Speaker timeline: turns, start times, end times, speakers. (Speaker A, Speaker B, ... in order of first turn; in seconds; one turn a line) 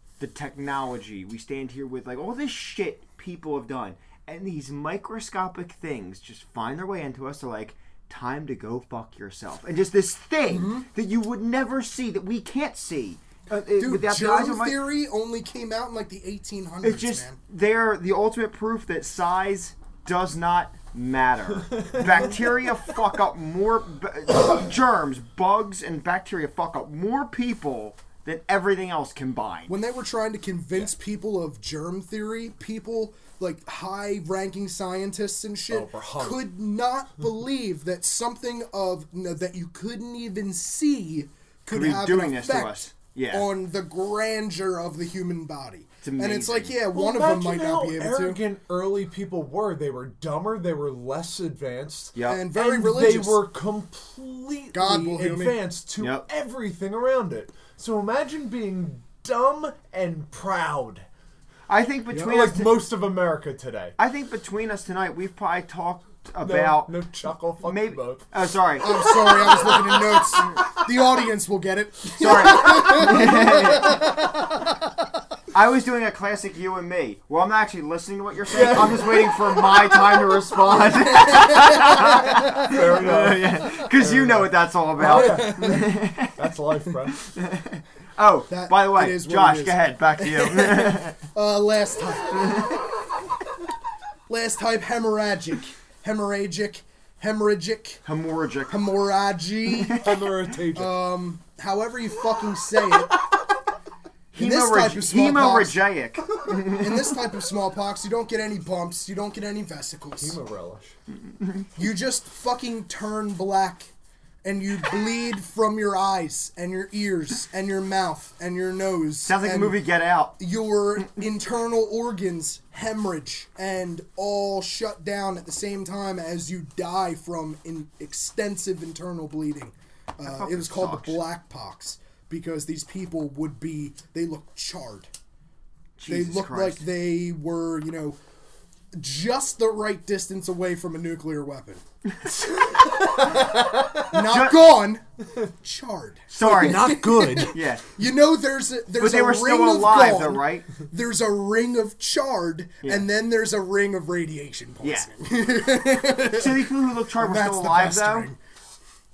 Speaker A: 0.2-14.8
Speaker B: 10.5-10.9
Speaker B: 13.8-17.4
Speaker A: 16.8-29.7
Speaker C: 21.7-22.3
Speaker B: 29.7-48.4
Speaker C: 35.7-36.4
Speaker A: 41.7-43.5
Speaker A: 46.0-46.8
Speaker C: 46.9-61.0
Speaker A: 52.1-52.4
Speaker B: 52.2-53.4
Speaker B: 54.7-55.6
Speaker A: 56.0-56.3
Speaker A: 61.7-62.8
Speaker C: 62.1-64.0
Speaker A: 64.0-66.9
Speaker C: 66.4-68.3
Speaker A: 67.6-69.6
Speaker B: 68.8-74.8
Speaker A: 72.2-74.2
Speaker A: 75.5-86.4
Speaker C: 78.5-79.4
Speaker B: 80.7-83.0
Speaker C: 81.9-87.2
Speaker B: 85.0-86.0
Speaker A: 87.2-91.2
Speaker B: 88.5-92.7
Speaker B: 94.3-98.0
Speaker A: 98.1-98.8
Speaker B: 98.7-100.1
Speaker A: 99.8-100.1
Speaker C: 100.0-101.0
Speaker B: 100.7-103.2
Speaker A: 104.3-107.1
Speaker B: 104.4-105.8
Speaker B: 106.7-110.4
Speaker C: 110.2-111.0
Speaker B: 111.8-113.9
Speaker B: 114.4-119.8
Speaker A: 119.2-120.3
Speaker B: 120.4-135.1
Speaker A: 130.2-131.2
Speaker A: 136.0-136.8
Speaker B: 136.1-138.2
Speaker B: 138.9-141.8
Speaker C: 142.5-144.1
Speaker B: 143.1-145.0
Speaker A: 144.1-144.7
Speaker B: 145.6-158.4
Speaker A: 146.3-147.9
Speaker C: 146.4-147.6
Speaker A: 149.0-150.7
Speaker A: 156.3-158.3